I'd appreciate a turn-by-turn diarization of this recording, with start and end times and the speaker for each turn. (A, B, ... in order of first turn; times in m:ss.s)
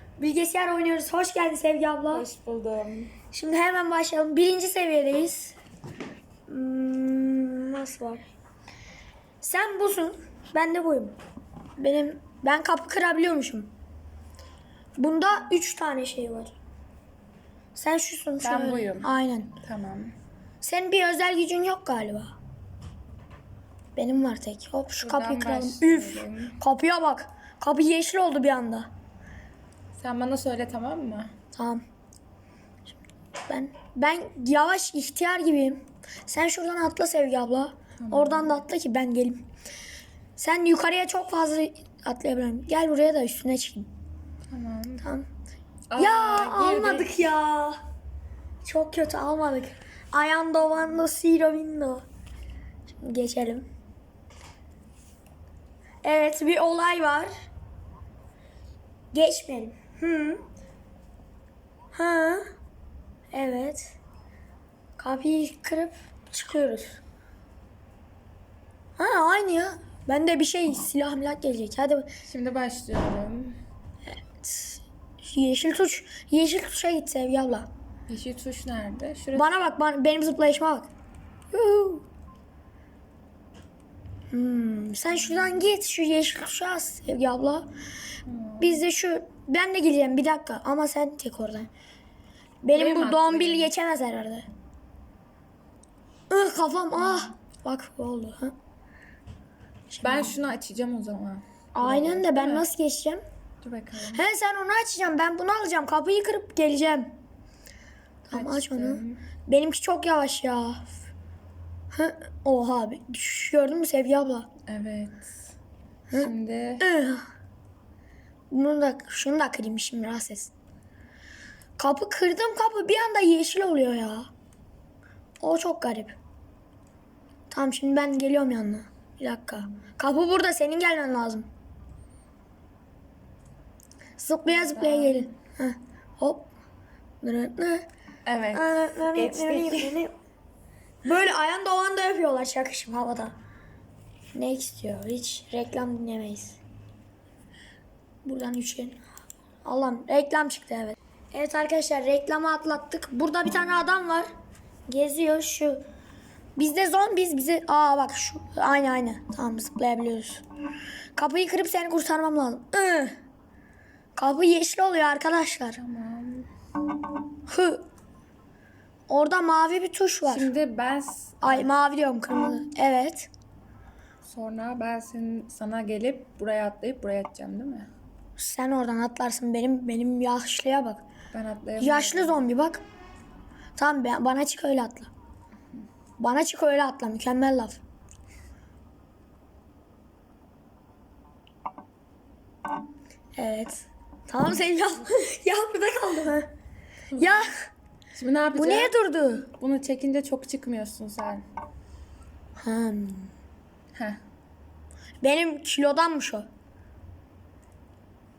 0:00.2-0:02.2 A
0:02.1-0:03.1 B
0:03.3-0:05.6 A
0:06.5-0:08.3 A
0:09.4-0:11.2 A
0:11.8-0:13.7 A
0:15.0-0:16.6 A
0:17.8-0:19.6 A
0:18.4-0:20.2 B
0:20.6-0:22.3 A
0:24.0-0:28.9 A
0:25.0-0:26.6 B
0:30.0-0:31.3 B
0:31.5-0:31.8 A
0:33.5-0:39.5 A
0:38.0-0:38.6 B
0:40.4-0:43.9 A
0:44.5-0:45.0 B
0:45.0-0:45.3 A
0:45.9-0:47.3 B
0:46.0-0:47.8 A
0:48.6-0:52.0 A
0:52.9-0:53.7 A
0:56.0-0:57.5 A
0:59.1-1:00.4 A
1:01.9-1:02.5 A
1:03.3-1:04.0 A
1:05.0-1:07.0 A
1:09.0-1:12.1 A
1:12.2-1:13.6 B
1:14.1-1:17.7 A
1:18.1-1:19.6 B
1:19.4-1:20.9 A
1:21.5-1:22.1 A
1:24.3-1:27.7 A
1:28.3-1:28.8 B
1:28.6-1:31.7 A
1:32.6-1:34.5 A
1:32.7-1:33.7 B
1:36.3-1:38.6 A
1:37.0-1:37.3 B
1:39.9-1:40.4 A
1:40.0-1:42.7 B
1:41.8-1:43.2 A
1:43.6-1:44.3 B
1:44.1-1:47.1 A
1:48.3-1:49.2 B
1:48.3-1:50.9 A
1:51.9-1:54.5 A
1:54.7-1:55.3 B
1:56.1-1:57.3 A
1:56.1-1:56.8 B
1:58.5-2:00.5 A
2:01.8-2:04.3 A
2:05.4-2:06.2 A
2:07.5-2:11.5 A
2:14.2-2:16.5 A
2:14.5-2:15.3 B
2:17.2-2:17.9 A
2:18.3-2:20.0 B
2:18.5-2:20.1 A
2:21.0-2:23.3 A
2:24.3-2:26.6 A
2:28.2-2:29.0 A
2:29.6-2:34.3 A
2:34.9-2:35.8 A
2:36.6-2:40.4 A
2:41.2-2:43.2 A
2:44.2-2:45.8 A
2:45.8-2:46.5 B
2:47.5-2:47.8 A
2:49.1-2:50.5 A
2:50.3-2:51.7 B
2:51.4-2:53.3 A
2:54.2-2:57.9 B
2:58.4-3:01.0 A
3:01.3-3:02.4 B
3:01.8-3:02.8 A
3:03.8-3:05.1 A
3:06.2-3:07.8 A
3:13.4-3:16.5 A
3:17.2-3:17.5 B
3:17.2-3:17.6 A
3:18.1-3:18.9 B
3:18.5-3:19.5 A
3:19.6-3:21.4 B
3:22.6-3:23.3 A
3:25.2-3:26.5 A